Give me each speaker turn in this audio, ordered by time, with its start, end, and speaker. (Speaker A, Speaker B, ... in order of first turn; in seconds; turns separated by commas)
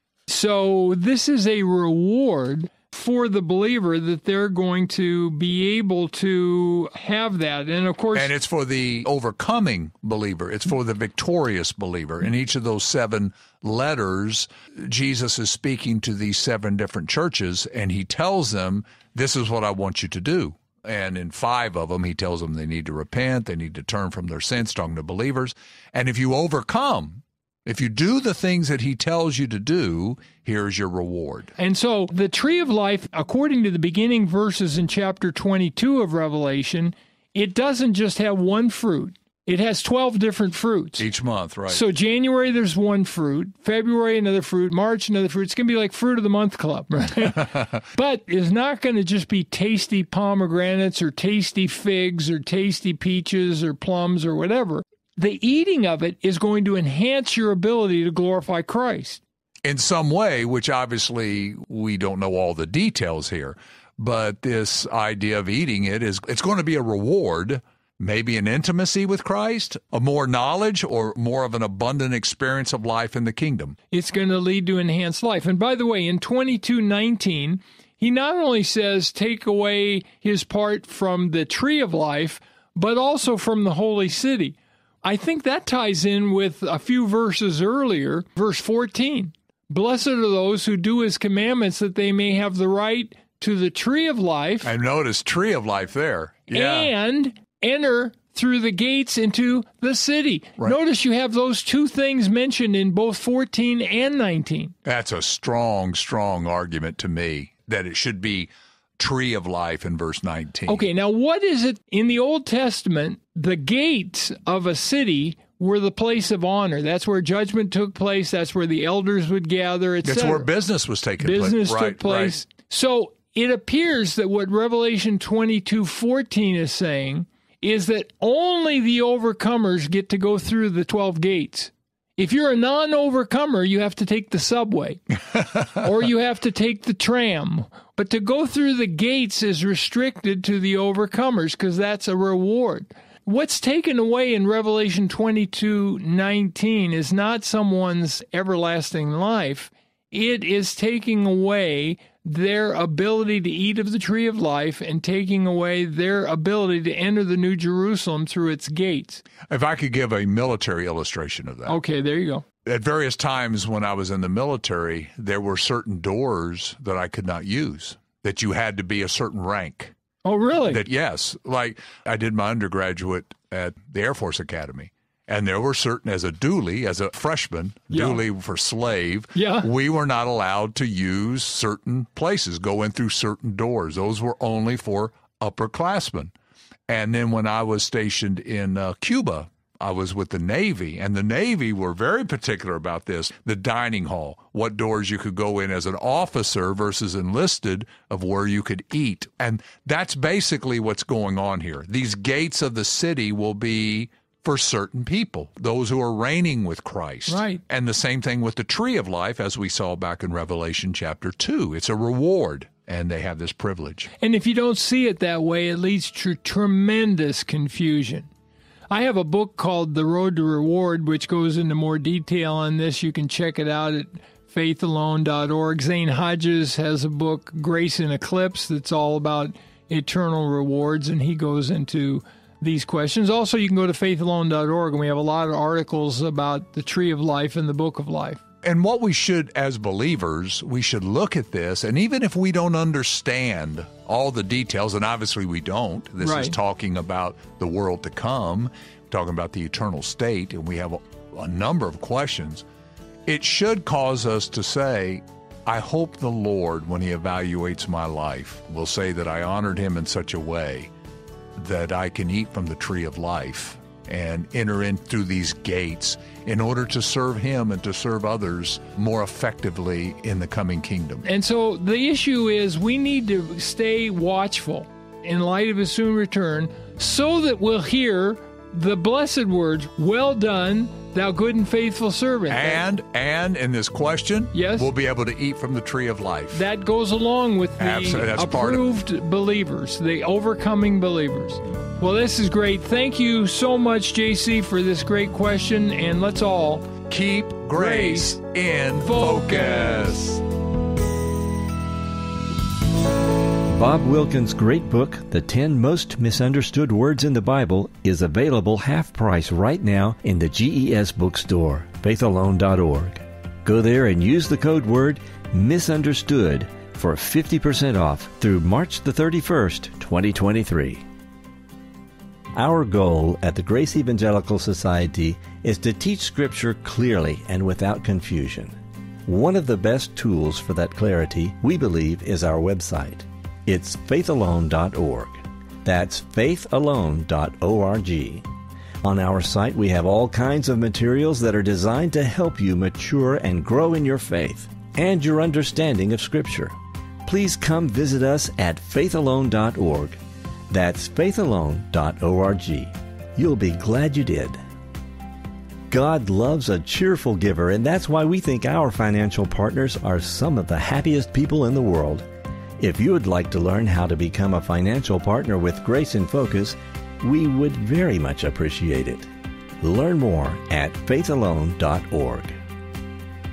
Speaker A: 0.3-8.3, Speaker B: 8.1-31.5, Speaker A: 31.6-41.1, Speaker B: 41.0-41.8, Speaker A: 41.7-59.2, Speaker B: 59.6-73.8, Speaker A: 73.9-94.7, Speaker B: 94.6-96.9, Speaker A: 96.5-104.7, Speaker B: 104.8-110.9, Speaker A: 110.7-120.5, Speaker B: 120.0-122.4, Speaker A: 121.2-159.3, Speaker B: 159.5-161.8, Speaker A: 161.7-162.4, Speaker B: 162.7-169.9, Speaker A: 170.2-170.8, Speaker B: 170.7-186.3, Speaker A: 177.9-178.2, Speaker A: 179.3-179.7, Speaker B: 186.9-214.1, Speaker A: 207.3-207.6, Speaker A: 214.2-218.3, Speaker A: 218.9-238.4, Speaker B: 238.6-252.7, Speaker A: 246.2-246.6, Speaker B: 253.3-260.9, Speaker B: 261.6-271.2, Speaker A: 271.2-282.8, Speaker B: 282.5-286.7, Speaker A: 284.5-284.9, Speaker A: 286.5-296.9, Speaker B: 287.8-288.8, Speaker B: 297.1-300.4, Speaker A: 297.7-298.4, Speaker A: 298.9-300.2, Speaker C: 303.7-321.0, Speaker C: 322.6-328.7, Speaker C: 329.3-338.5, Speaker C: 339.0-350.2, Speaker C: 350.7-354.6, Speaker C: 355.9-362.3, Speaker C: 362.8-369.3, Speaker C: 369.8-372.6